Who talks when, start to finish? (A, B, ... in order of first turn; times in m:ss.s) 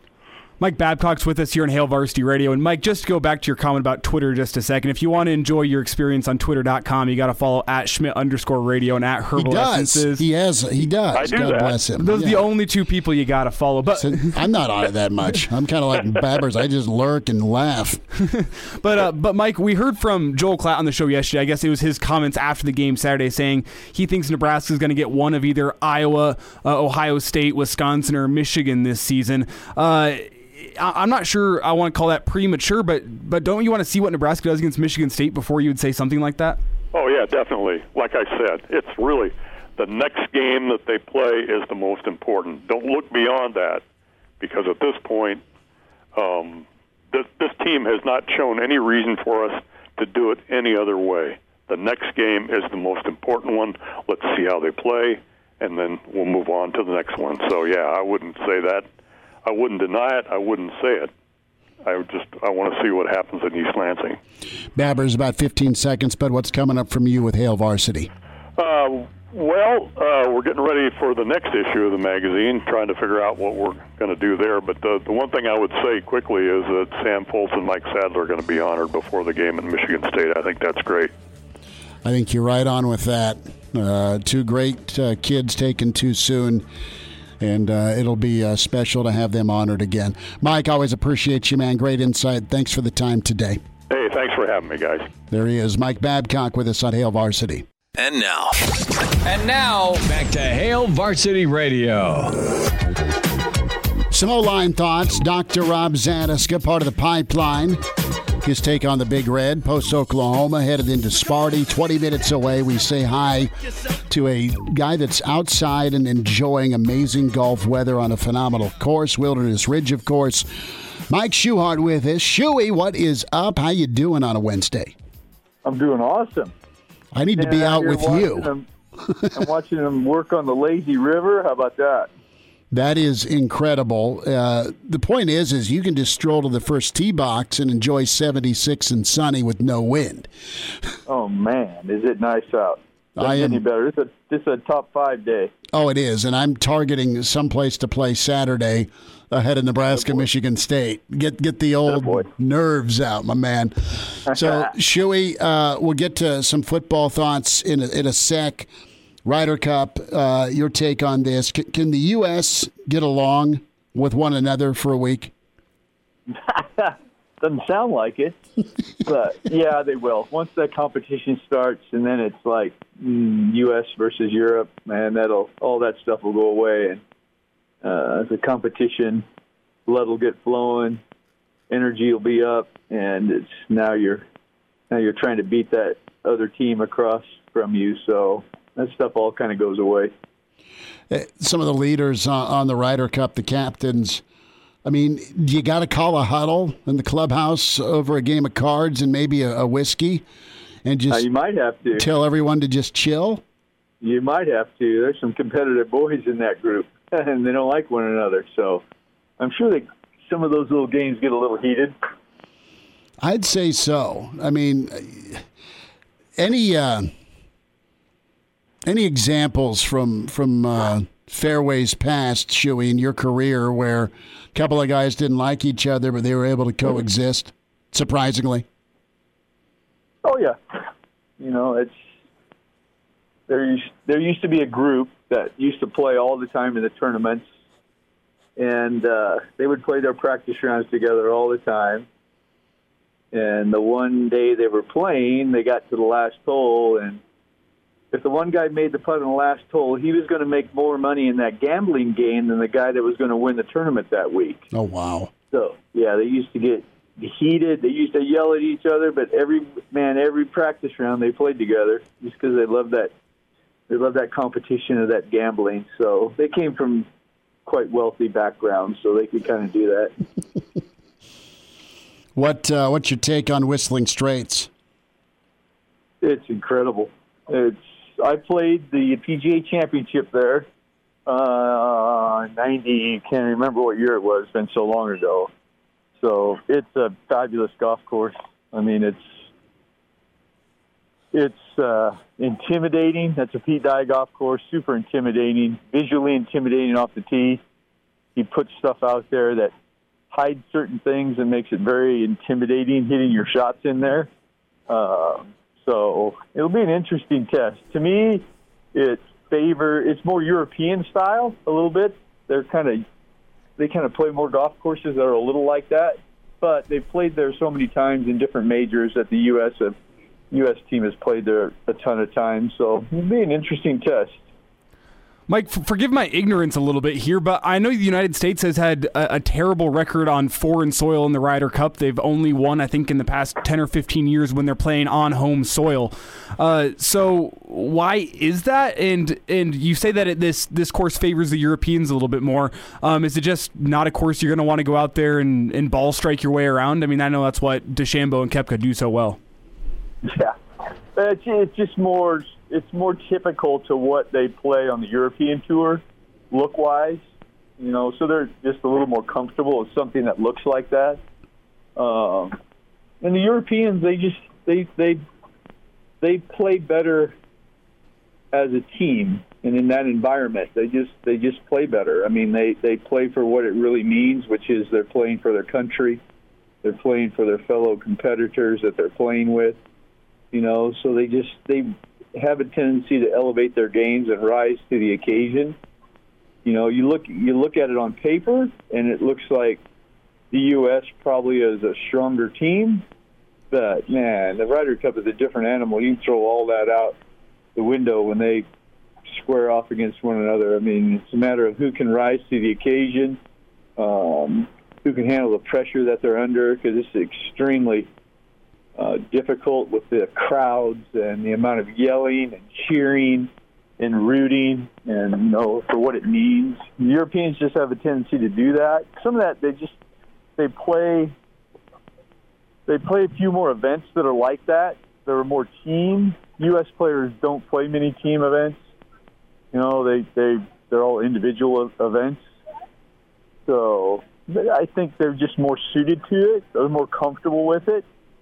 0:00.6-0:10.2 A
0:09.4-0:12.4 B
0:11.1-0:11.8 C
0:12.0-0:14.3 A
0:14.0-0:18.0 B
0:18.3-0:36.6 A
0:36.9-0:43.8 C
0:44.4-0:45.4 C
0:46.1-0:58.8 C
0:59.4-1:01.1 C
1:01.8-1:04.2 C
1:04.8-1:08.1 B
1:08.6-1:21.1 C
1:22.0-1:26.6 B
1:27.4-1:33.6 B
1:33.9-1:35.1 C
1:35.3-1:37.6 B
1:38.0-1:38.5 D
1:39.2-1:42.4 D
1:44.1-1:47.8 B
1:48.4-1:53.5 B
1:54.0-2:04.9 B
2:05.6-2:06.5 E
2:07.1-2:08.5 B
2:07.4-2:08.7 E
2:09.0-2:09.4 B
2:09.3-2:12.1 E
2:12.7-2:20.3 B
2:21.1-2:25.5 E
2:23.2-2:23.6 B
2:25.7-2:38.7 B
2:31.9-2:32.2 E
2:39.2-2:45.3 B
2:46.3-2:48.4 E
2:49.0-2:57.0 E
2:57.8-2:59.2 E
2:59.9-3:01.0 E
3:01.7-3:04.2 E
3:04.9-3:10.1 E
3:11.1-3:14.2 B
3:14.8-3:20.2 B
3:20.8-3:21.2 B
3:21.1-3:22.1 E
3:22.0-3:23.4 B
3:24.0-3:28.8 E
3:29.4-3:32.0 E
3:33.2-3:35.4 B
3:36.4-3:37.1 B
3:38.8-3:48.6 B
3:50.2-3:50.8 E
3:51.4-3:52.0 E
3:53.5-3:57.4 E
3:58.6-4:02.1 E
4:03.3-4:07.2 E
4:08.1-4:14.6 E
4:14.7-4:15.3 B
4:15.5-4:23.1 E
4:23.9-4:27.1 E
4:27.6-4:30.1 E
4:32.4-4:34.7 B
4:36.2-4:40.7 E
4:41.2-4:45.5 E
4:46.2-4:49.4 E
4:51.3-4:57.6 E
4:58.4-4:59.7 E
5:00.3-5:04.3 E
5:04.9-5:13.0 E
5:13.8-5:20.0 E
5:20.5-5:24.4 E
5:25.5-5:49.4 A
5:50.2-5:50.6 E
5:51.1-5:57.2 E
5:57.8-6:01.2 E
6:02.0-6:02.6 E
6:03.2-6:05.2 E
6:06.2-6:07.4 E
6:08.5-6:16.2 E
6:16.8-6:19.8 E
6:20.5-6:25.8 E
6:26.6-6:29.8 E
6:30.5-6:33.0 E
6:33.7-6:37.2 E
6:37.8-6:38.6 E
6:39.3-6:43.4 E
6:44.0-6:48.1 E
6:49.0-7:00.0 E
7:00.6-7:01.3 E
7:02.9-7:08.8 E
7:09.7-7:12.4 E
7:13.6-7:18.0 E